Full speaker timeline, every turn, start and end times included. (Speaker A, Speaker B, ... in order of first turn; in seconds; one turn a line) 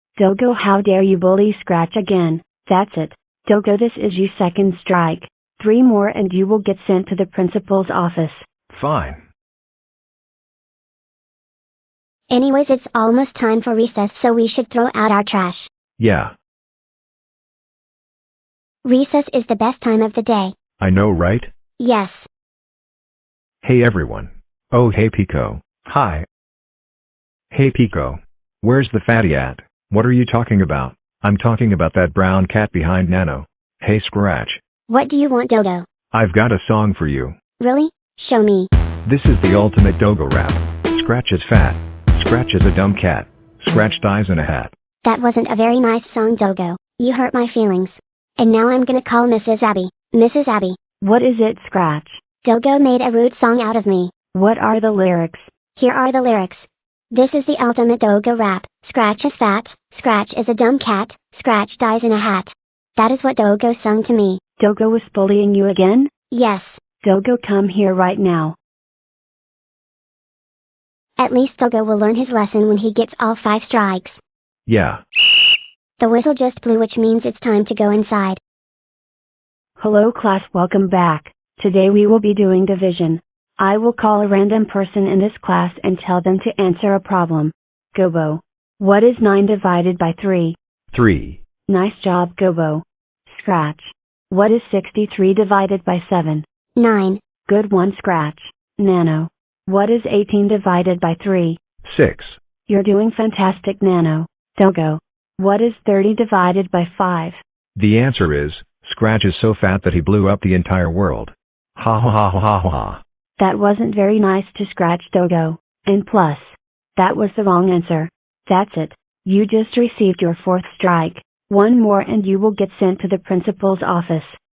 Speaker A: 0.2-8.4
Speaker B: 8.7-9.2
Speaker C: 12.3-15.7
Speaker B: 16.0-16.3
Speaker C: 18.8-20.5
Speaker B: 20.8-21.5
Speaker C: 21.8-22.3
Speaker B: 23.6-26.2
Speaker B: 27.5-34.6
Speaker C: 34.9-35.9
Speaker B: 36.1-37.4
Speaker C: 37.6-38.7
Speaker B: 39.0-44.7
Speaker C: 45.0-50.8
Speaker A: 51.0-52.2
Speaker C: 52.4-54.1
Speaker A: 54.3-55.5
Speaker C: 55.8-64.4
Speaker A: 64.6-66.1
Speaker C: 66.3-66.8
Speaker A: 67.0-68.5
Speaker C: 71.2-74.2
Speaker B: 74.7-75.0
Speaker C: 76.0-78.4
Speaker A: 79.8-90.5
Speaker B: 90.9-91.4
Speaker A: 91.7-96.4
Speaker C: 96.8-97.2
Speaker A: 97.5-101.6
Speaker B: 101.8-102.4
Speaker A: 102.7-107.4
Speaker B: 107.8-113.0
Speaker A: 113.4-124.4